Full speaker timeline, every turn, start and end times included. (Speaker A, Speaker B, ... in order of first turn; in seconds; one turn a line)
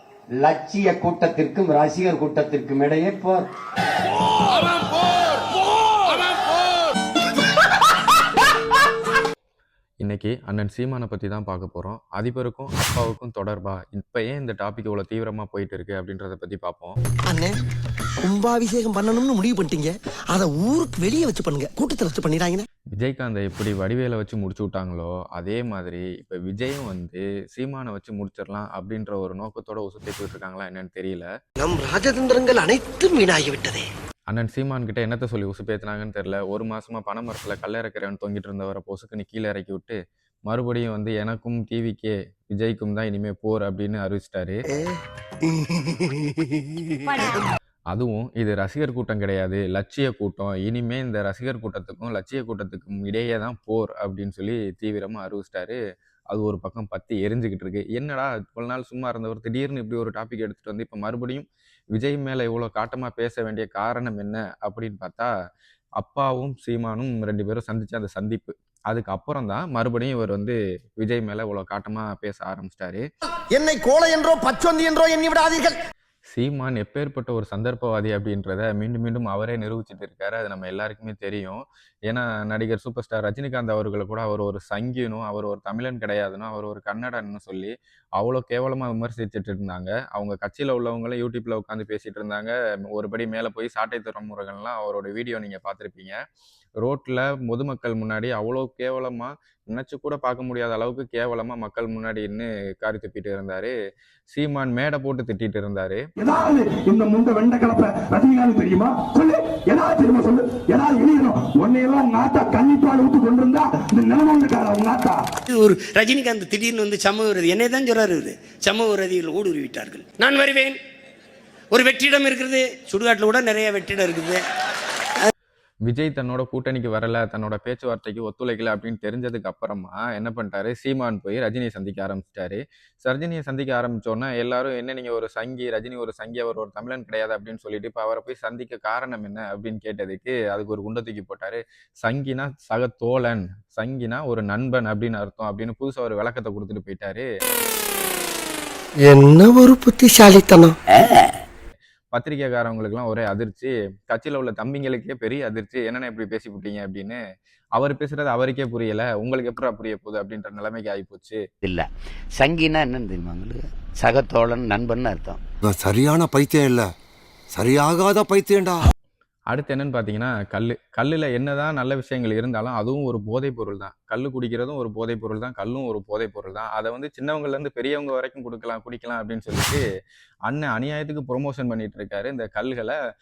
Speaker A: 0.4-3.3
Speaker B: 1.8-3.0
Speaker C: 10.0-17.0
Speaker D: 17.3-17.5
Speaker D: 18.2-22.7
Speaker C: 22.9-31.3
Speaker D: 31.6-33.8
Speaker C: 34.3-40.0
Speaker C: 40.5-44.6
Speaker D: 44.7-46.7
Speaker C: 47.9-55.8
Speaker C: 56.3-65.3
Speaker C: 66.0-73.0
Speaker D: 73.5-75.8
Speaker C: 76.3-96.2
Speaker C: 96.8-103.7
Speaker C: 104.3-106.0
Speaker E: 106.2-115.2
Speaker B: 115.5-120.8
Speaker B: 121.7-124.4
Speaker C: 125.8-147.3
Speaker D: 149.0-150.8
Speaker C: 152.1-157.2
Speaker C: 157.8-161.4
Speaker F: 161.6-165.4
Speaker G: 165.7-166.9
Speaker G: 167.5-168.8
Speaker C: 169.5-179.8
Speaker C: 180.5-183.0